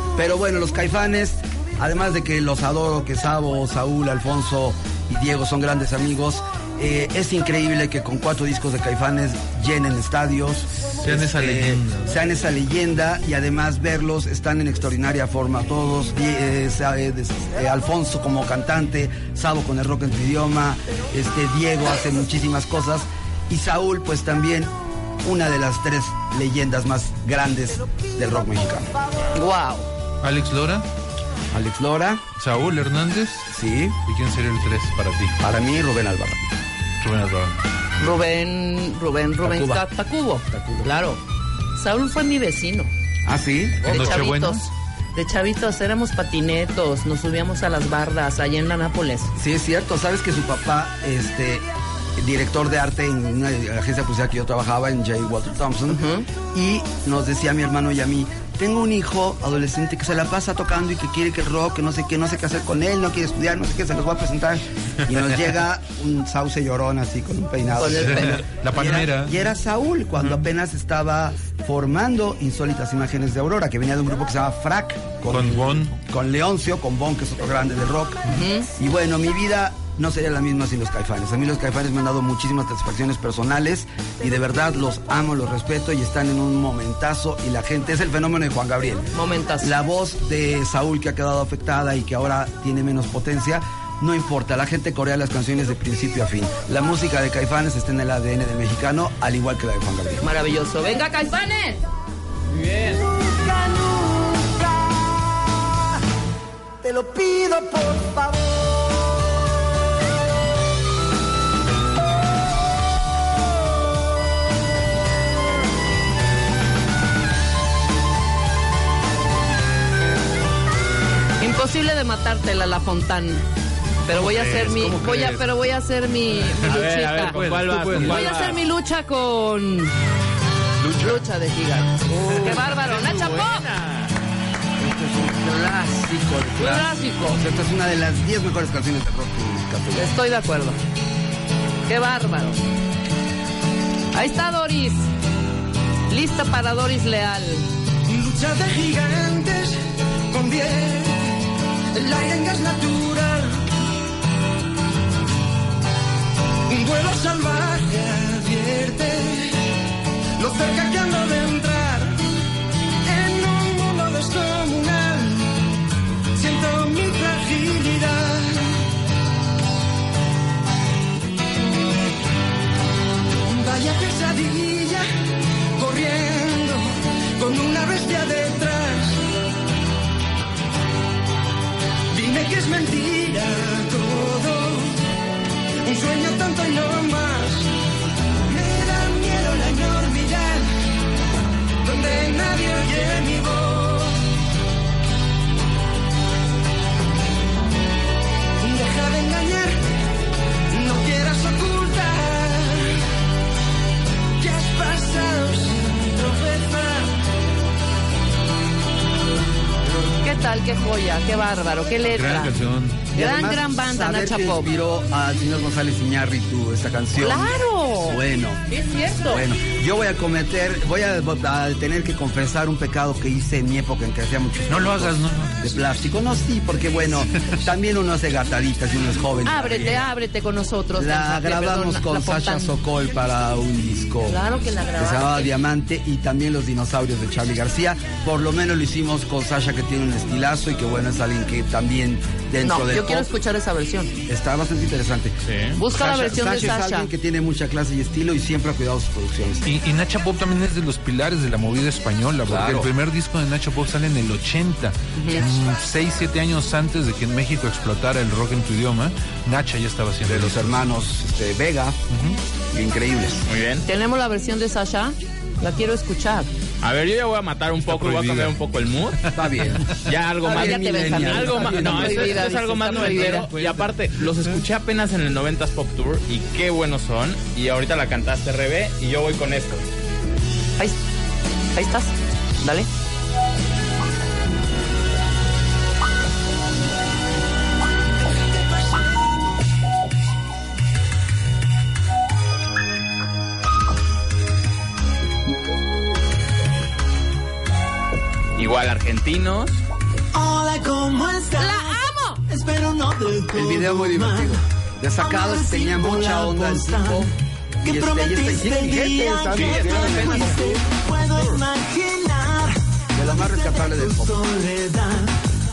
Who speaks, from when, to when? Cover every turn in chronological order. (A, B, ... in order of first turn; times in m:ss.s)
0:00.2-0:28.9 A
0:11.0-0:12.1 B
0:29.3-0:29.9 C
0:30.2-0:30.9 B
0:31.5-0:32.3 A
0:32.4-0:33.5 B
0:33.5-0:34.0 A
0:34.1-0:35.4 B
0:35.4-0:36.5 A
0:37.0-0:37.6 B
0:38.0-0:41.2 C
0:39.4-0:39.8 A
0:40.5-0:40.9 A
0:41.8-0:42.9 C
0:43.3-0:44.2 A
0:43.8-0:44.7 B
0:43.9-0:49.3 C
0:49.4-0:51.6 A
0:52.2-1:40.2 A
0:55.9-0:56.3 C
1:07.8-1:08.4 C
1:07.8-1:09.4 B
1:15.3-1:16.0 B
1:18.3-1:18.7 C
1:29.1-1:29.8 C
1:40.2-1:41.8 C
1:42.5-1:43.0 D
1:43.2-1:45.0 E
1:46.8-1:48.5 E
2:01.4-2:03.4 C
2:04.1-2:10.0 C
2:04.1-2:05.5 B
2:06.4-2:08.5 B
2:06.7-2:08.6 D
2:10.8-2:11.2 B
2:11.0-2:13.7 C
2:12.2-2:14.1 D
2:14.8-2:20.2 A
2:16.6-2:17.4 C
2:20.0-2:20.8 C
2:21.9-2:22.6 C
2:24.1-2:25.1 C
2:26.1-2:27.7 C
2:28.1-2:29.8 E
2:30.3-2:31.3 E
2:31.9-2:33.6 E
2:36.7-2:39.6 E
2:40.4-2:42.2 E
2:43.1-2:45.6 E
2:46.4-2:48.8 E
2:53.5-2:55.1 E
2:55.8-2:59.3 E
3:02.1-3:05.0 E
3:05.8-3:07.7 E
3:08.5-3:10.7 E
3:11.8-3:14.2 E
3:18.6-3:19.8 E
3:20.7-3:23.0 E
3:24.4-3:27.1 E
3:30.2-3:32.6 C
3:32.2-3:33.1 B
3:33.1-3:34.7 C
3:33.1-3:50.1 A
3:37.2-3:39.4 C
3:44.7-3:45.6 B
3:49.4-3:52.7 C
3:51.0-3:54.4 A
3:54.3-3:55.6 C
3:55.0-4:03.3 A
4:02.6-4:04.2 C
4:04.3-4:09.7 A
4:05.5-4:05.8 D
4:05.8-4:07.1 C
4:09.6-4:20.8 B
4:12.5-4:12.9 A
4:15.2-4:15.5 C
4:20.3-4:22.0 A
4:22.1-4:22.4 B
4:22.7-4:23.4 A
4:23.5-4:23.8 D
4:23.9-4:26.5 C
4:26.8-4:29.2 D
4:27.8-4:28.6 B
4:29.2-4:30.1 B
4:29.3-4:29.9 A
4:30.0-4:39.8 D
4:30.4-4:32.4 A
4:30.4-4:33.5 C
4:32.0-4:34.6 B
4:41.7-4:42.9 C
4:58.6-4:59.8 D
5:00.4-5:00.8 E
5:00.4-5:01.9 F
5:01.6-5:02.4 C
5:02.5-5:04.3 F
5:02.8-5:04.3 E
5:03.5-5:07.3 A
5:05.2-5:07.1 F
5:06.9-5:07.2 E
5:07.8-5:10.8 A
5:07.8-5:15.2 F
5:10.0-5:10.4 E
5:13.1-5:14.4 A